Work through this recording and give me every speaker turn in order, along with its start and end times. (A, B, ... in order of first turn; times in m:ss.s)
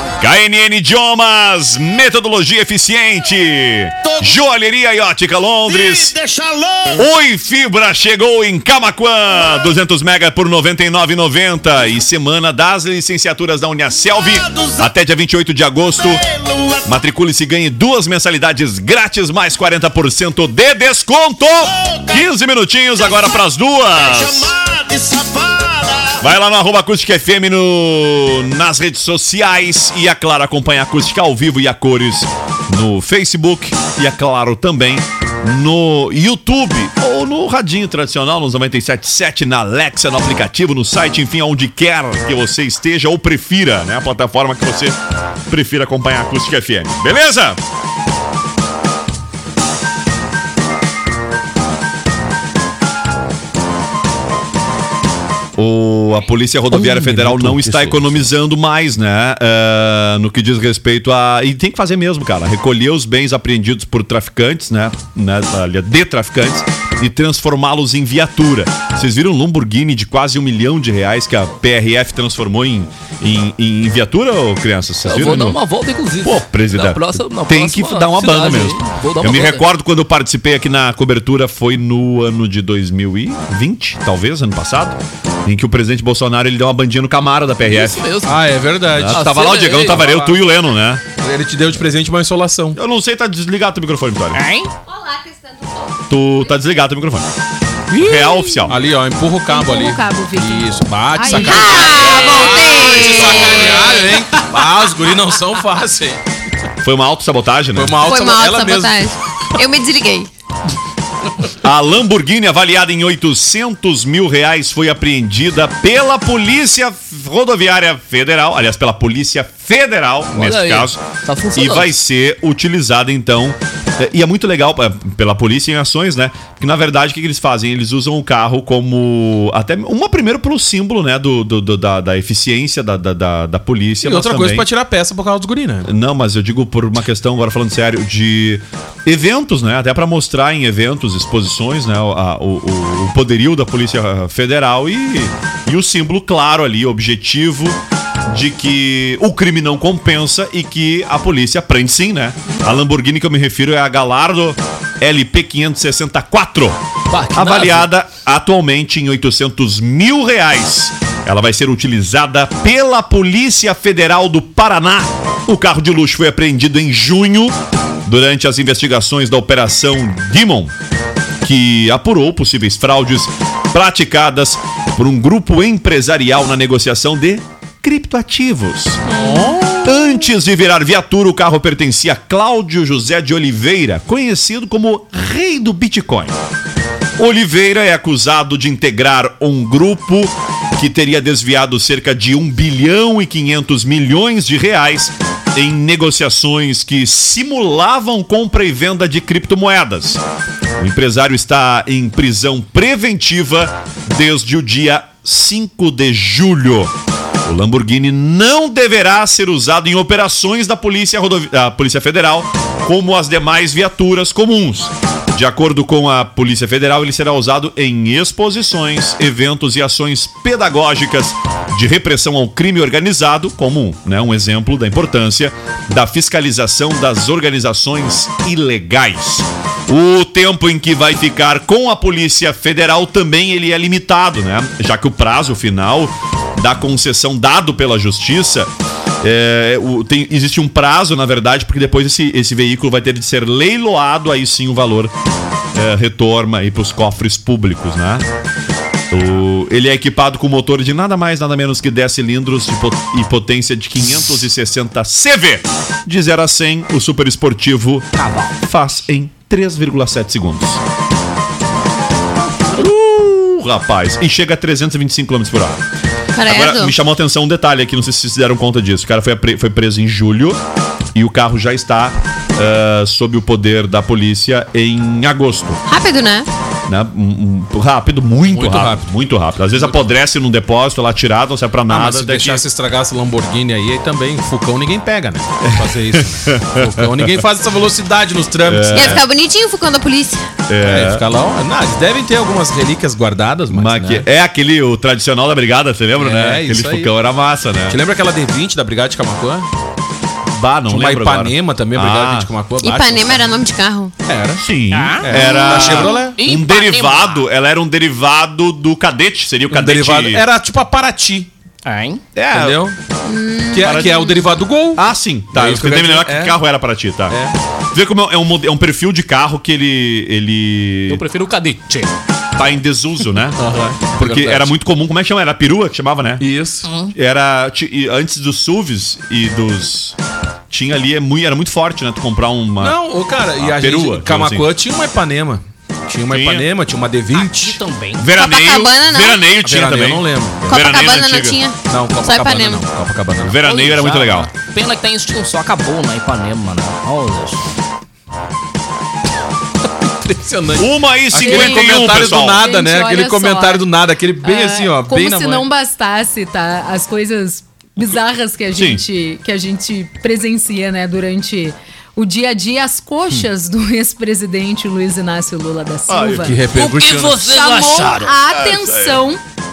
0:00.2-0:06.1 A
0:04.0-0:04.4 B
0:05.6-0:07.1 B
0:06.9-0:16.2 A
0:14.3-0:14.9 B
0:16.0-0:16.9 B
0:16.8-0:24.5 A
0:21.7-0:22.2 B
0:23.9-0:26.2 B
0:26.2-0:45.0 A
0:45.5-0:47.6 A
0:55.6-1:15.6 A
0:56.7-0:58.2 C
1:15.0-1:19.6 C
1:16.2-1:28.0 A
1:27.6-1:30.0 C
1:28.2-1:30.4 D
1:28.9-1:31.0 A
1:31.2-1:32.8 D
1:32.7-1:34.4 A
1:34.3-1:34.7 C
1:34.8-1:36.3 E
1:36.1-1:37.3 A
1:37.9-1:38.8 A
1:37.9-1:38.6 C
1:38.7-1:46.2 D
1:39.5-1:42.2 F
1:41.4-1:44.0 E
1:46.8-1:48.0 A
1:47.7-1:49.0 D
1:48.0-1:50.3 E
1:51.6-2:01.0 A
2:00.3-2:01.9 C
2:01.5-2:14.7 A
2:14.0-2:15.9 D
2:15.8-2:36.8 A
2:37.1-2:37.9 C
2:37.3-2:50.7 A
2:51.4-2:59.0 A
2:59.1-2:59.6 C
2:59.2-2:59.9 D
2:59.8-3:06.3 A
3:07.2-3:20.2 A
3:20.8-3:26.9 A
3:27.4-3:58.7 A
3:59.2-4:05.1 A
4:05.7-4:08.2 A
4:09.1-4:18.1 A
4:18.2-4:18.5 C
4:18.6-4:20.8 A
4:22.7-4:25.8 A
4:26.3-4:26.9 E
4:26.4-4:30.6 A
4:31.1-4:35.8 A
4:35.9-4:36.5 E
4:36.9-4:42.6 A
4:38.5-4:39.1 D
4:41.9-4:49.2 D
4:45.6-4:47.4 A
4:48.6-4:49.2 A
4:48.9-4:50.4 E
4:50.7-4:51.2 A
4:50.8-4:54.2 D
4:53.7-4:58.0 A
4:56.2-4:57.1 D
4:57.9-4:59.7 D
5:00.5-5:02.5 A
5:00.9-5:03.5 D
5:02.8-5:04.1 E
5:04.2-5:04.6 D
5:04.6-5:10.4 A
5:04.9-5:05.2 C
5:05.2-5:06.4 D
5:05.3-5:06.3 E
5:06.4-5:07.4 C
5:09.7-5:11.5 D
5:11.8-5:12.2 C
5:12.4-5:12.8 A
5:12.5-5:13.0 D
5:13.2-5:14.5 E
5:13.7-5:16.6 D
5:13.8-5:14.3 A
5:14.9-5:17.4 A
5:17.3-5:17.5 D
5:17.9-5:21.2 A
5:21.1-5:22.1 C
5:22.6-5:26.4 A
5:23.6-5:24.7 D
5:26.4-5:26.9 D
5:26.8-5:27.1 C
5:27.1-5:30.2 A
5:30.7-5:33.0 A
5:32.8-5:37.8 D
5:33.6-5:34.7 A
5:36.3-5:36.7 A
5:37.3-5:38.2 C
5:38.2-5:41.6 A
5:38.3-5:39.5 E
5:39.6-5:40.7 D
5:40.7-5:42.8 E
5:41.9-5:43.6 D
5:43.4-5:44.5 A
5:43.6-5:47.8 C
5:50.0-5:55.6 D
5:50.8-5:52.6 A
5:51.4-5:53.9 F
5:54.4-6:06.6 F
5:58.7-5:59.0 A
6:06.1-6:06.6 A
6:06.4-6:07.4 D
6:06.7-6:08.3 C
6:07.4-6:09.4 F
6:08.5-6:09.2 A